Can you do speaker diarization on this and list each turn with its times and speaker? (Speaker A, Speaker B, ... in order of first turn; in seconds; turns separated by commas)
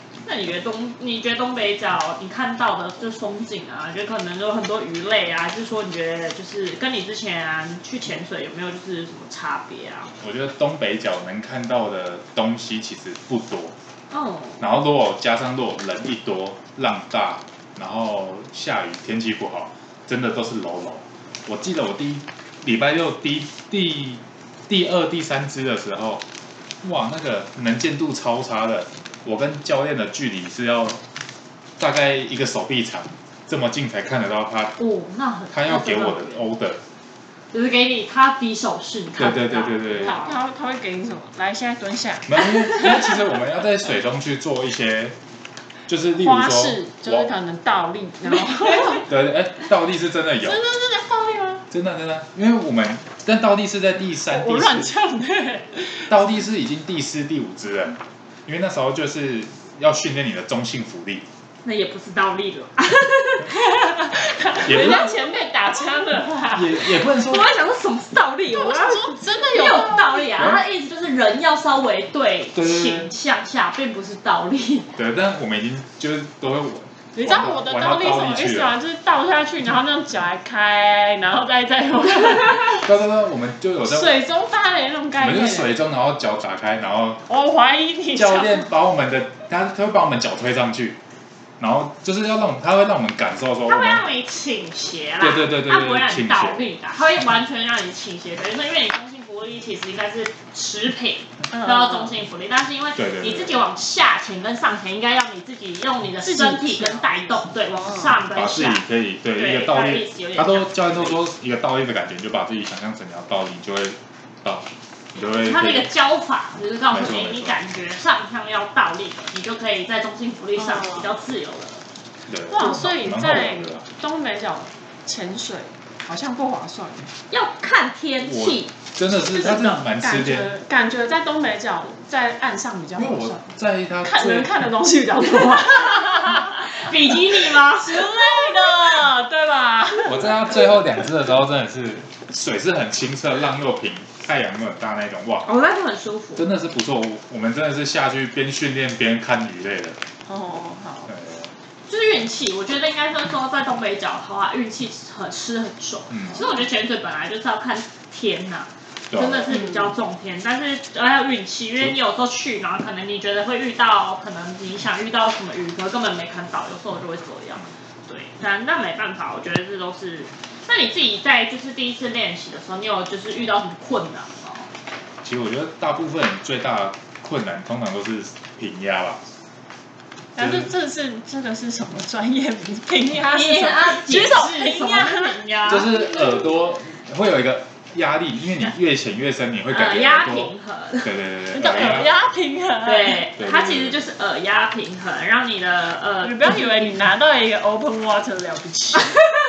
Speaker A: 0.2-10.1, Speaker B: 10.2-13.7, Speaker A: 14.1-14.7, Speaker B: 14.6-26.2, Speaker B: 26.8-31.0, Speaker B: 31.8-34.8, Speaker A: 34.8-36.4, Speaker B: 35.5-36.8, Speaker A: 37.5-40.4, Speaker B: 39.2-40.1, Speaker C: 40.0-42.4, Speaker B: 42.2-45.1, Speaker B: 45.9-47.3, Speaker C: 46.1-49.1, Speaker A: 48.3-49.0, Speaker B: 49.0-50.6, Speaker C: 50.4-51.7, Speaker B: 51.7-54.9, Speaker C: 54.3-56.1, Speaker B: 56.1-61.2, Speaker A: 61.6-63.7, Speaker C: 63.6-67.0, Speaker B: 64.6-65.1, Speaker A: 64.7-65.1, Speaker B: 66.5-67.5, Speaker A: 67.2-74.9, Speaker C: 68.5-70.4, Speaker B: 70.3-70.6, Speaker B: 72.5-73.1, Speaker B: 74.9-78.8, Speaker C: 77.1-82.9, Speaker B: 82.7-84.2, Speaker C: 83.8-85.8, Speaker B: 85.2-87.2, Speaker C: 87.3-88.7, Speaker B: 88.1-91.0, Speaker B: 91.6-94.1, Speaker A: 93.7-108.8, Speaker B: 95.2-96.6, Speaker C: 101.5-102.2, Speaker B: 102.9-103.6, Speaker C: 106.2-107.5, Speaker B: 108.3-115.9, Speaker A: 109.3-111.2, Speaker A: 115.3-121.8, Speaker B: 116.9-117.6, Speaker C: 120.7-121.0, Speaker B: 122.3-123.8, Speaker C: 122.5-127.1, Speaker A: 127.3-128.8, Speaker B: 128.2-130.5, Speaker C: 129.2-133.5, Speaker A: 129.5-129.8, Speaker B: 132.9-134.6, Speaker C: 134.0-140.8, Speaker A: 135.6-138.2, Speaker B: 140.0-145.5, Speaker A: 145.4-146.4, Speaker B: 146.4-150.0, Speaker C: 150.3-151.1, Speaker B: 151.1-151.5, Speaker A: 151.9-174.7, Speaker B: 156.1-156.4, Speaker B: 159.1-159.9, Speaker B: 175.2-179.2, Speaker C: 180.3-185.4, Speaker B: 180.4-180.7, Speaker A: 183.2-186.0, Speaker B: 185.7-192.1, Speaker A: 189.7-191.1, Speaker C: 191.5-193.3, Speaker A: 192.8-196.9, Speaker B: 193.4-194.0, Speaker C: 196.2-199.2